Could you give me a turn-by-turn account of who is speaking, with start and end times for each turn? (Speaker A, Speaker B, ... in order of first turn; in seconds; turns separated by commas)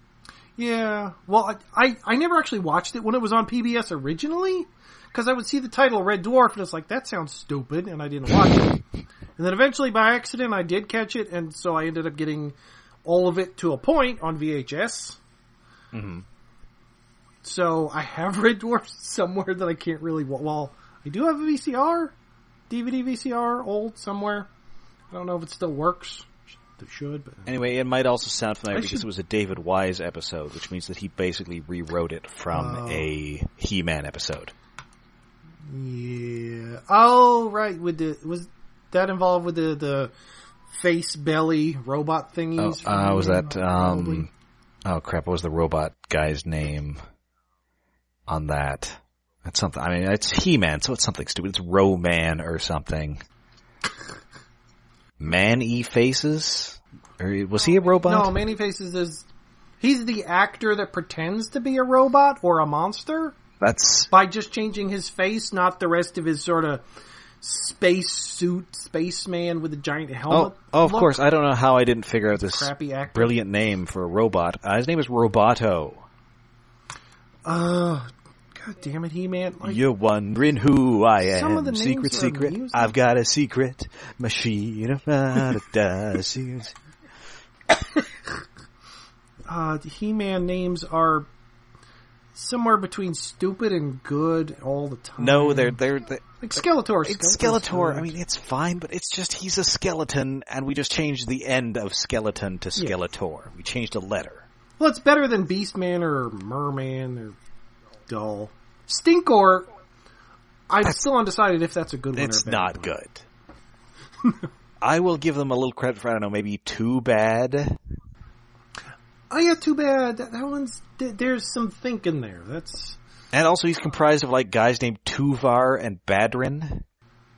Speaker A: 0.6-8.8, Speaker A: 9.4-15.2, Speaker B: 15.9-16.2, Speaker A: 17.4-22.1, Speaker A: 22.7-24.5, Speaker A: 25.1-27.5, Speaker B: 27.5-34.5, Speaker A: 28.7-29.1, Speaker A: 32.5-33.1, Speaker A: 35.6-40.1, Speaker A: 40.7-44.3, Speaker B: 42.6-44.3, Speaker B: 44.9-47.0, Speaker B: 48.3-53.2, Speaker B: 55.2-58.4, Speaker A: 58.0-59.3, Speaker A: 59.8-63.4, Speaker B: 63.6-64.1, Speaker A: 64.1-66.8, Speaker A: 67.4-71.2, Speaker B: 70.3-76.1, Speaker A: 72.4-73.4, Speaker A: 77.5-79.8, Speaker B: 79.6-86.7, Speaker A: 81.2-82.9, Speaker A: 89.5-91.3, Speaker A: 92.3-95.8, Speaker B: 95.2-96.2, Speaker A: 96.4-98.2, Speaker B: 97.0-104.5, Speaker A: 104.8-107.4, Speaker A: 108.1-109.7, Speaker A: 110.7-112.9, Speaker B: 112.2-113.2, Speaker B: 114.8-117.8, Speaker A: 119.3-123.0, Speaker B: 123.3-126.8